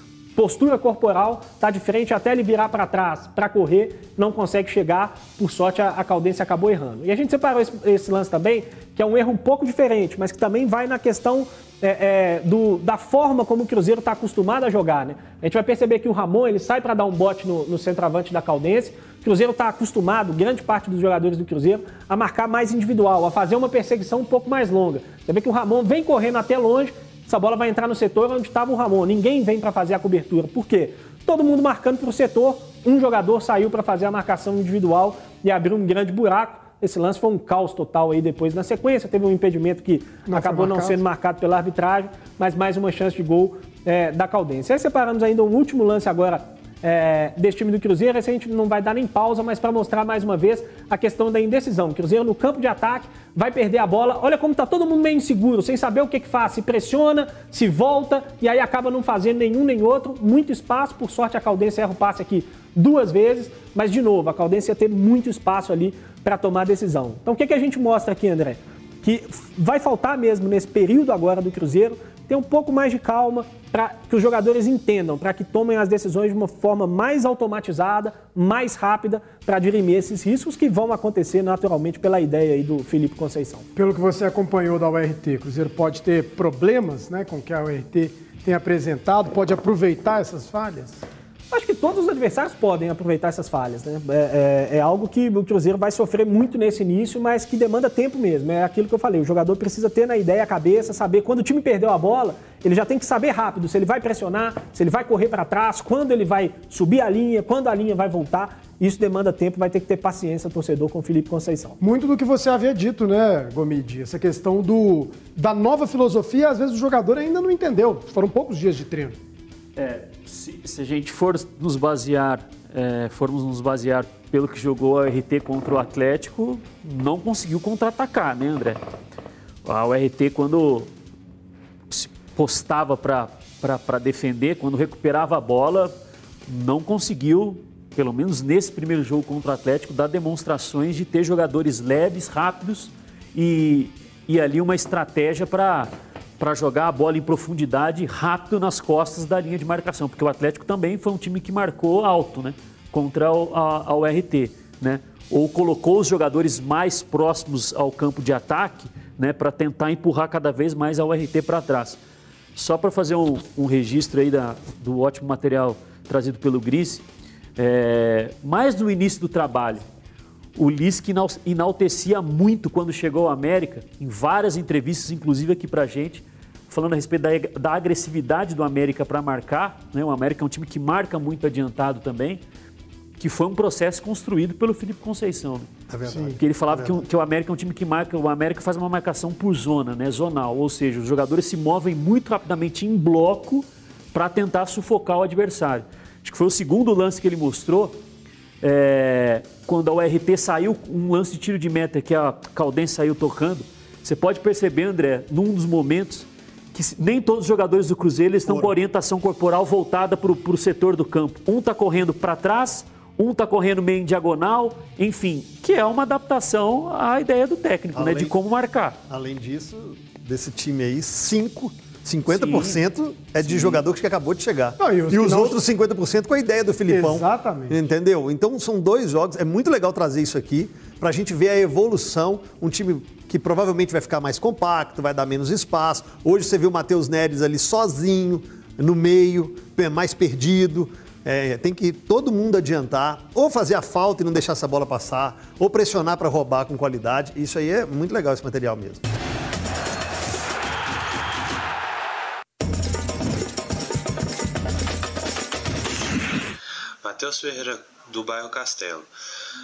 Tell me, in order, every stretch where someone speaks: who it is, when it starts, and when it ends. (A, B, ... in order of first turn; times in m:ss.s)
0:00.4-1:23.7 A
0:40.3-0:41.0 B
1:23.8-1:31.0 B
1:31.5-1:51.8 A
1:51.8-1:59.2 B
1:59.8-2:08.8 C
2:09.6-2:10.9 C
2:11.9-2:15.9 C
2:16.5-2:42.0 C
2:42.6-2:47.0 C
2:47.6-2:49.8 C
2:50.6-3:02.4 C
3:03.2-3:05.7 C
3:05.9-3:07.0 D
3:06.1-3:06.4 B
3:06.4-3:18.0 C
3:18.6-3:39.0 C
3:28.4-3:28.7 D
3:37.9-3:38.4 D
3:39.1-4:09.0 D
3:42.3-3:42.8 C
3:43.4-3:43.8 C
3:44.8-3:45.6 B
3:46.9-3:47.8 B
4:17.0-4:19.1 E